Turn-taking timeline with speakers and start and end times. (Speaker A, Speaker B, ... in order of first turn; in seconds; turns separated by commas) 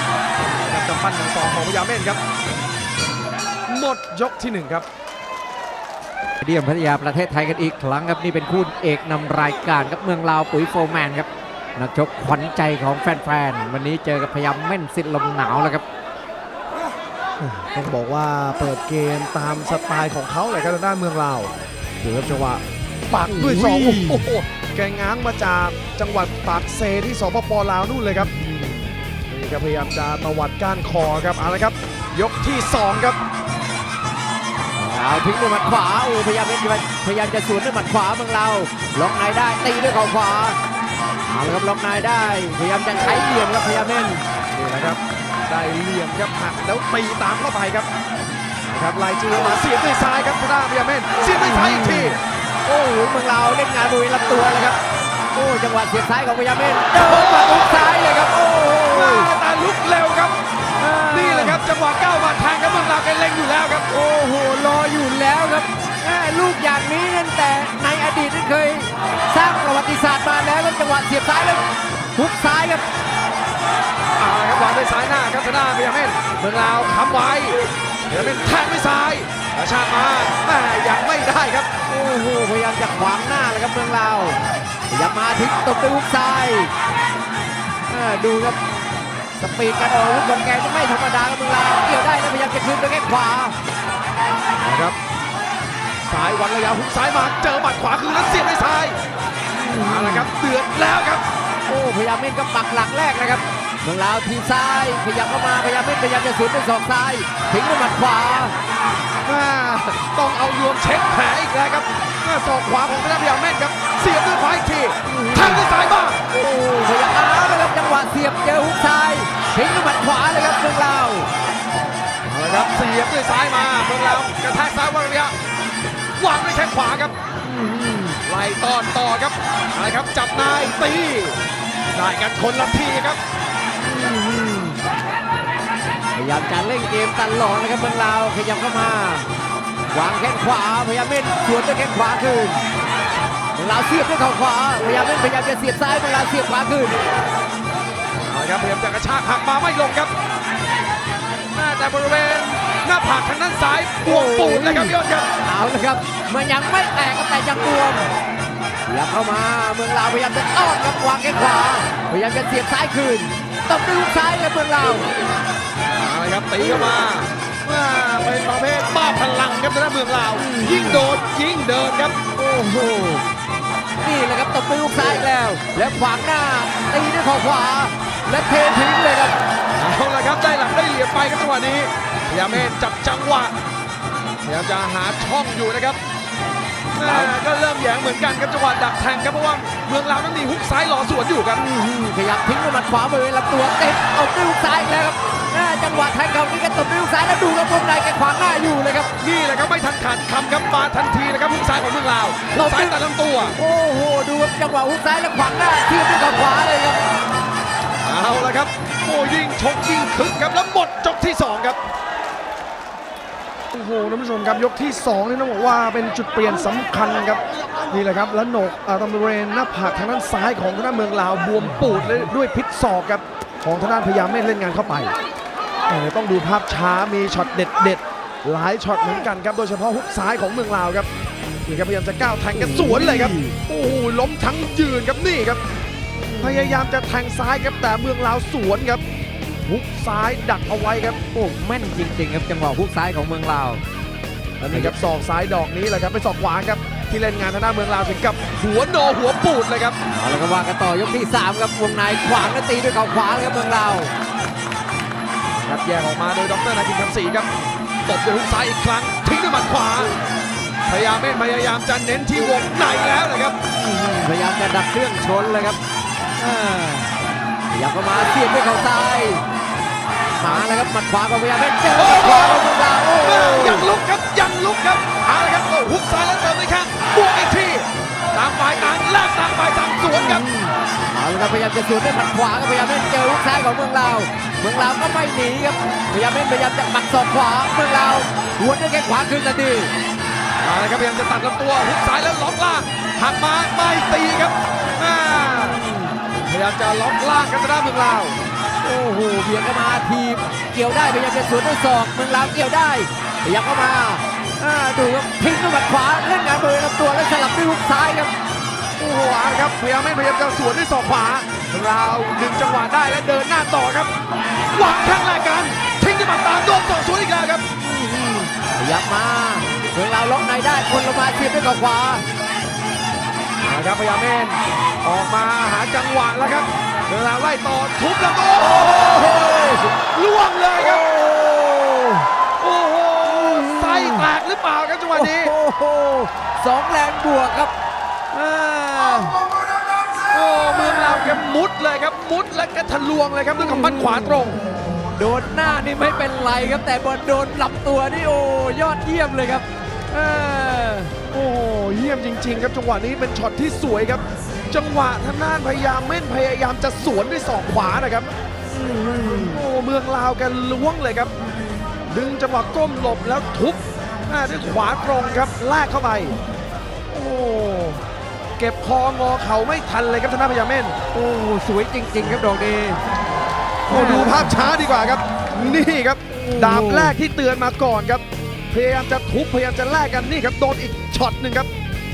Speaker A: 0.5-2.2, Speaker A: 3.7-4.9, Speaker B: 6.4-15.8, Speaker A: 17.4-28.3, Speaker B: 23.3-24.2, Speaker B: 28.2-28.9, Speaker A: 29.3-33.2, Speaker B: 34.8-40.6, Speaker B: 41.2-44.2, Speaker A: 44.5-47.9, Speaker A: 48.7-52.2, Speaker B: 51.3-54.8, Speaker B: 55.3-59.3, Speaker A: 57.0-57.7, Speaker A: 58.9-60.4, Speaker B: 60.8-61.6, Speaker A: 61.1-63.9, Speaker B: 63.9-71.6, Speaker B: 72.1-72.8, Speaker A: 74.2-77.6, Speaker A: 78.1-81.7, Speaker B: 81.9-86.7, Speaker B: 87.9-88.6, Speaker B: 89.3-93.5, Speaker A: 94.6-95.0, Speaker A: 96.0-99.0, Speaker B: 99.5-100.3, Speaker A: 99.8-101.2, Speaker B: 101.7-108.5, Speaker A: 109.2-116.2, Speaker B: 115.1-115.6, Speaker B: 116.3-121.3, Speaker A: 122.2-125.3, Speaker A: 126.2-127.2, Speaker B: 127.4-128.2, Speaker A: 128.2-131.4, Speaker A: 131.9-133.2, Speaker B: 133.8-134.8, Speaker B: 136.1-139.3, Speaker B: 139.9-142.7, Speaker B: 143.5-147.0, Speaker A: 148.2-150.1, Speaker A: 151.5-155.3, Speaker B: 154.0-158.1, Speaker B: 158.8-165.1, Speaker A: 165.9-172.2, Speaker B: 170.3-171.0, Speaker B: 172.4-173.2, Speaker B: 174.0-179.4, Speaker A: 179.8-183.5, Speaker A: 184.4-186.0, Speaker B: 186.9-187.3, Speaker A: 186.9-191.6, Speaker B: 191.6-199.1, Speaker A: 199.2-203.6, Speaker B: 202.5-202.9, Speaker B: 203.6-207.0, Speaker A: 208.0-211.8, Speaker A: 213.7-225.1, Speaker A: 225.9-231.1, Speaker A: 231.6-235.6, Speaker B: 232.5-233.5, Speaker B: 236.3-236.8, Speaker A: 236.4-239.0, Speaker A: 239.6-241.2, Speaker B: 241.3-243.8, Speaker A: 244.6-250.0, Speaker B: 250.1-254.1, Speaker A: 255.6-257.5, Speaker A: 258.1-260.1, Speaker A: 260.9-263.6, Speaker B: 263.7-265.8, Speaker B: 266.4-267.1, Speaker B: 267.7-269.4, Speaker B: 270.4-273.9, Speaker A: 271.9-272.6, Speaker A: 273.2-280.4, Speaker B: 280.1-289.9, Speaker A: 290.6-295.8, Speaker B: 295.5-296.1, Speaker A: 296.4-298.4, Speaker B: 298.8-308.3, Speaker A: 309.0-314.1, Speaker A: 314.7-317.7, Speaker B: 317.8-322.2, Speaker A: 323.6-329.4, Speaker B: 328.8-329.9, Speaker A: 329.9-331.0, Speaker B: 330.8-332.3, Speaker A: 332.6-335.5, Speaker B: 333.3-334.2, Speaker B: 335.1-337.7, Speaker B: 338.3-339.4, Speaker A: 340.3-344.6, Speaker B: 343.6-344.6, Speaker B: 345.1-351.1, Speaker A: 351.3-358.3, Speaker B: 358.7-359.4, Speaker A: 359.2-361.3, Speaker A: 362.1-366.4, Speaker A: 367.1-368.0, Speaker A: 368.6-371.0, Speaker B: 371.1-373.0, Speaker B: 373.9-374.5, Speaker A: 373.9-381.7, Speaker B: 376.3-377.1